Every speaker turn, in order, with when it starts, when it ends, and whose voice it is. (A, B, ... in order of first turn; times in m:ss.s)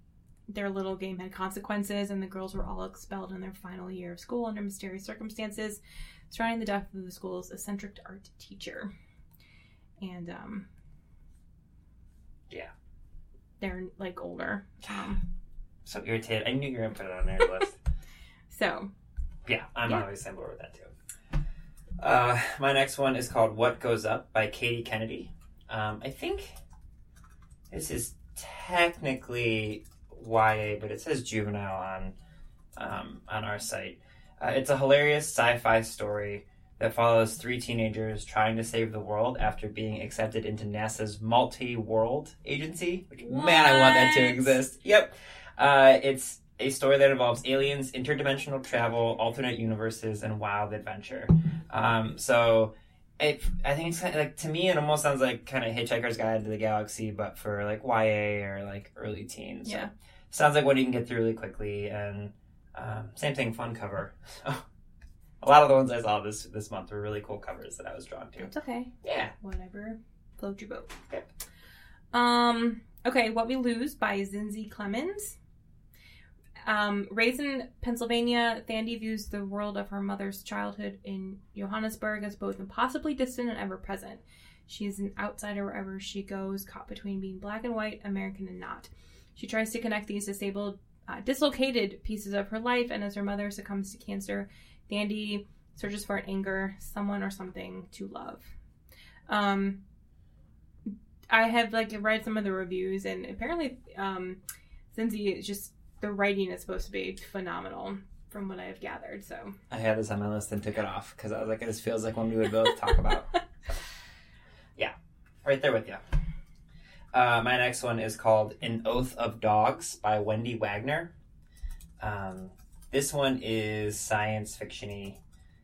0:00.5-0:08.9 A
0:10.0-0:10.7 A
0:13.6-0:15.2 A
0:15.8-0:17.8 B
0:18.5-0:18.9 A
0:19.5-0:20.9 B
0:22.0-0:26.5 B
0:27.7-0:32.2 B
0:32.8-1:04.6 B
0:43.2-0:44.6 A
0:59.6-0:59.9 A
1:05.4-1:08.5 B
1:08.4-1:11.0 A
1:09.0-1:09.3 B
1:12.1-1:15.4 A
1:16.6-1:38.5 A
1:39.3-1:39.8 A
1:41.3-1:44.4 A
1:44.9-1:49.6 A
1:49.7-1:53.3 B
1:54.8-1:56.0 B
1:57.1-2:01.1 B
2:02.0-2:05.2 B